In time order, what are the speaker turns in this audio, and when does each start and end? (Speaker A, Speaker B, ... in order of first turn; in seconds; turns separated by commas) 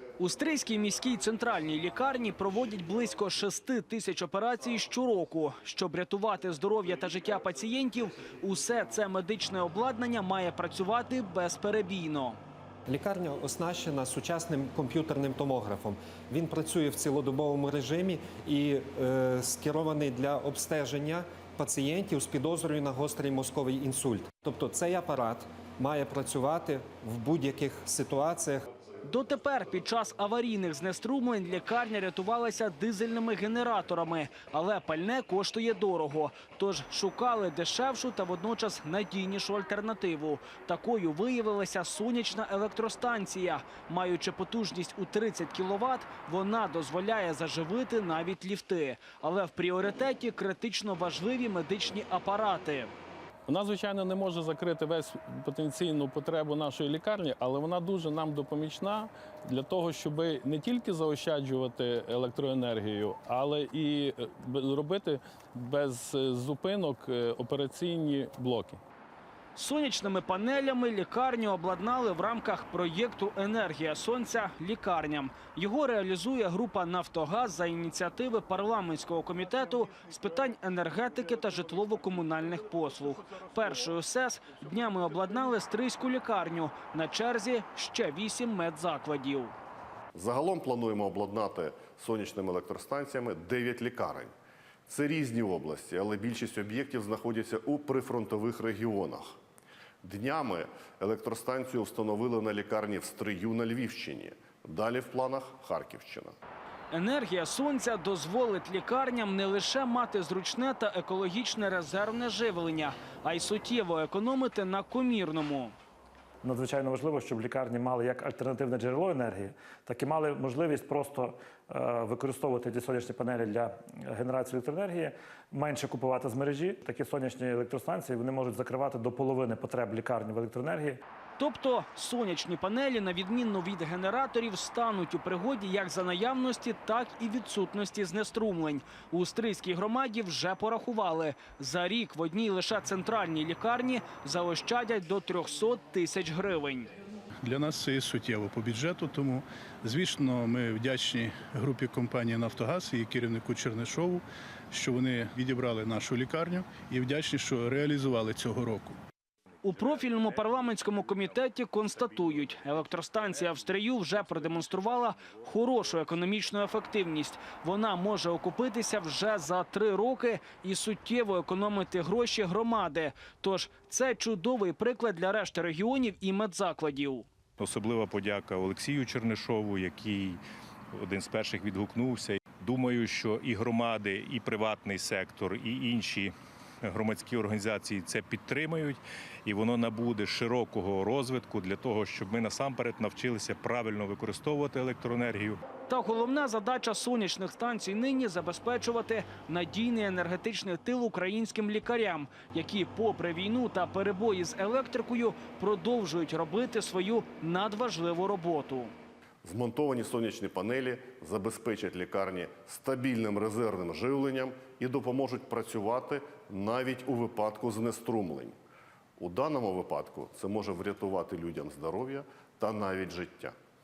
Speaker A: 0.2-12.4, Speaker B: 12.9-28.6, Speaker A: 29.0-52.9, Speaker C: 53.5-68.8, Speaker A: 69.5-89.5, Speaker D: 90.2-94.3, Speaker D: 94.9-99.4, Speaker D: 100.0-106.3, Speaker A: 106.9-115.8, Speaker E: 116.4-131.0, Speaker A: 131.4-146.9, Speaker F: 147.4-159.0, Speaker A: 159.6-177.3, Speaker G: 177.6-180.4, Speaker G: 180.9-186.3, Speaker G: 186.9-195.6, Speaker A: 195.9-208.9, Speaker D: 209.4-218.6, Speaker D: 219.2-223.6